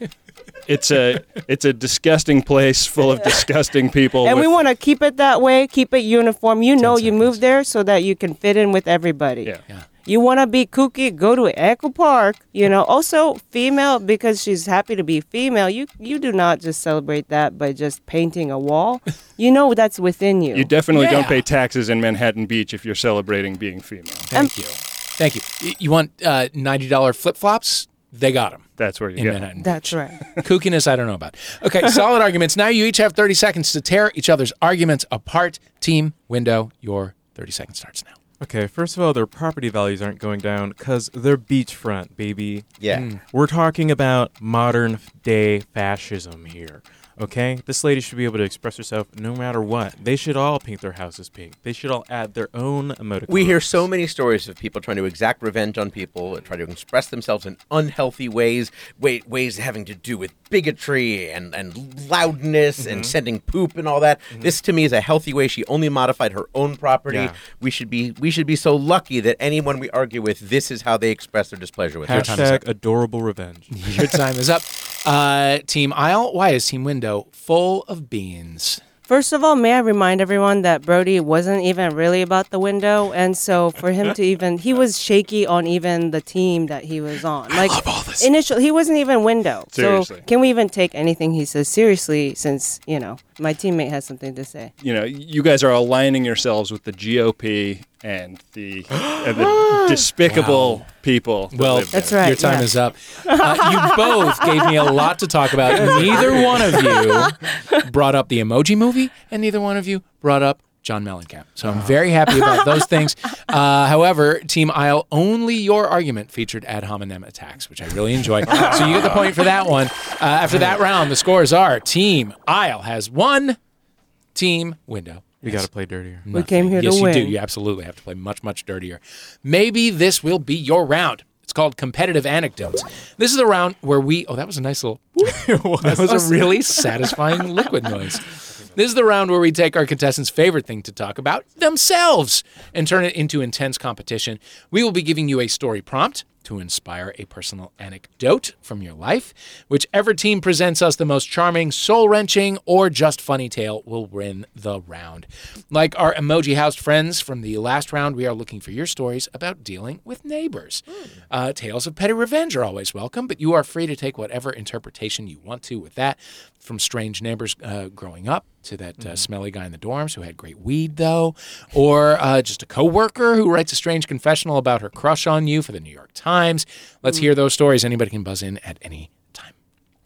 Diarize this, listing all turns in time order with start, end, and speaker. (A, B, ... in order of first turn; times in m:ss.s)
0:00.7-0:04.5 A
0:04.2-0:09.5 B
0:06.8-0:07.4 C
0:10.0-0:20.7 B
0:20.5-0:24.3 A
0:20.9-0:21.4 C
0:24.3-0:38.2 C
0:28.8-0:29.5 A
0:29.6-0:30.2 B
0:38.4-0:53.9 D
0:42.8-0:43.0 E
0:42.9-0:43.2 C
0:53.3-1:12.6 E
1:02.8-1:03.1 D
1:07.1-1:07.4 D
1:12.0-1:13.7 D
1:12.1-1:12.6 C
1:13.7-1:18.8 C
1:19.1-1:34.7 B
1:27.5-1:28.3 D
1:29.7-1:30.2 A
1:34.8-1:42.2 A
1:40.2-1:40.9 C
1:41.5-2:03.6 C
1:41.9-1:42.7 B
1:43.3-1:44.0 B
1:45.7-1:47.2 B
1:51.6-1:52.0 D
1:58.6-1:59.2 B
2:04.4-2:05.7 C
2:05.4-2:06.3 D
2:06.3-2:59.5 C
2:06.3-2:07.4 B
2:15.2-2:16.4 D
2:49.0-2:49.3 D